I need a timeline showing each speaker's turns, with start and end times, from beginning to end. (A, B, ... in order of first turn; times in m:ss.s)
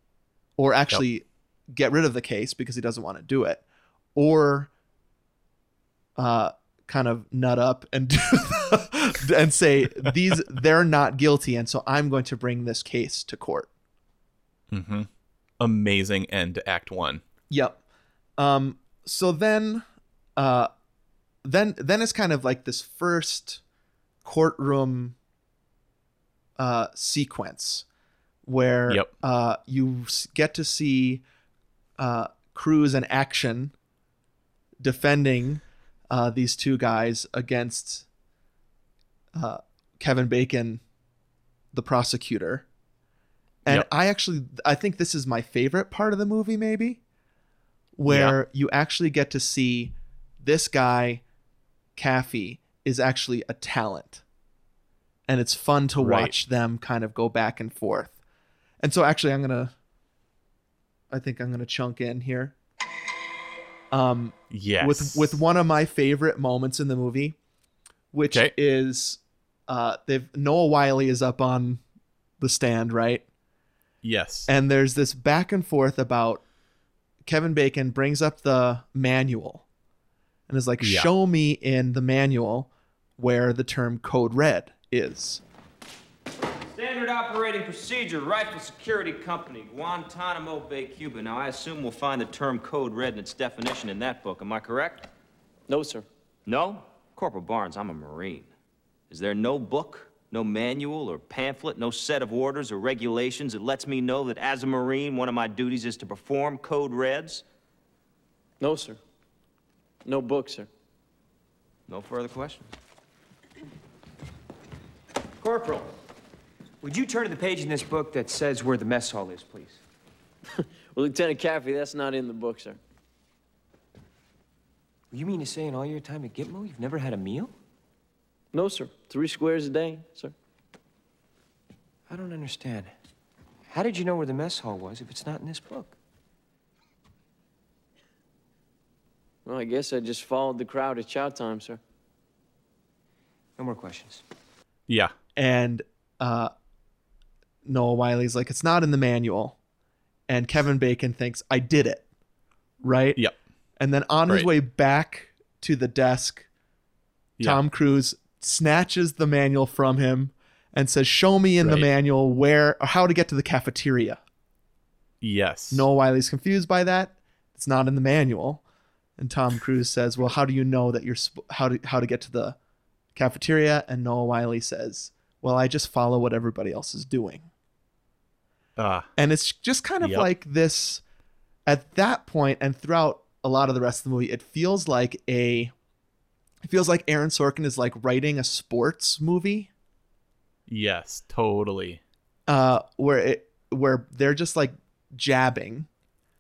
0:00.6-0:03.6 A
0:04.2-0:04.7 A
0:06.2-0:13.7 A
0:14.7-0:15.1 B
0:15.6-0:17.2 B
0:17.5-0:17.8 A
0:18.4-0:19.8 A
0:20.4-0:20.7 A
0:21.4-0:23.6 A
0:24.2-0:25.2 A
0:26.6-0:27.8 A
0:28.5-0:31.2 A
0:32.0-0:33.7 A
0:34.8-0:38.0 A
0:39.4-0:40.8 A
0:41.7-0:42.6 A
0:43.6-0:47.0 A
0:48.0-0:51.2 A
0:48.1-0:48.4 B
0:52.0-0:54.2 A
0:55.3-0:58.1 A
0:56.0-0:56.4 B
0:58.8-0:59.7 A
1:01.1-1:02.5 A
1:03.9-1:07.4 A
1:04.5-1:05.4 B
1:08.1-1:11.8 A
1:12.4-1:13.2 A
1:14.0-1:14.5 B
1:14.5-1:16.4 A
1:17.3-1:19.6 A
1:20.5-1:25.4 A
1:20.8-1:21.1 B
1:26.7-1:35.1 C
1:35.7-1:36.1 D
1:36.5-1:38.5 C
1:39.1-1:47.4 C
1:48.6-1:49.0 D
1:50.0-1:50.7 D
1:51.9-1:52.7 C
1:55.4-1:55.9 C
1:56.8-1:59.8 E
2:00.6-2:02.8 D
2:05.1-2:07.5 E
2:08.5-2:10.4 D
2:12.1-2:12.9 E
2:13.7-2:16.0 E
2:19.4-2:21.8 D
2:23.6-2:24.2 E
2:24.9-2:25.1 B
2:25.4-2:26.5 A
2:27.6-2:29.6 A
2:30.3-2:32.0 A
2:32.8-2:33.2 A
2:33.8-2:36.5 A
2:37.4-2:44.2 A
2:41.6-2:41.9 B
2:45.2-2:45.9 B
2:45.7-2:48.6 A
2:49.2-2:52.6 A
2:53.2-2:57.5 A
2:58.8-2:59.1 B
2:59.2-3:01.0 A
3:00.0-3:00.3 B
3:01.7-3:05.7 A
3:06.6-3:09.7 A
3:10.7-3:12.0 B
3:12.5-3:15.9 A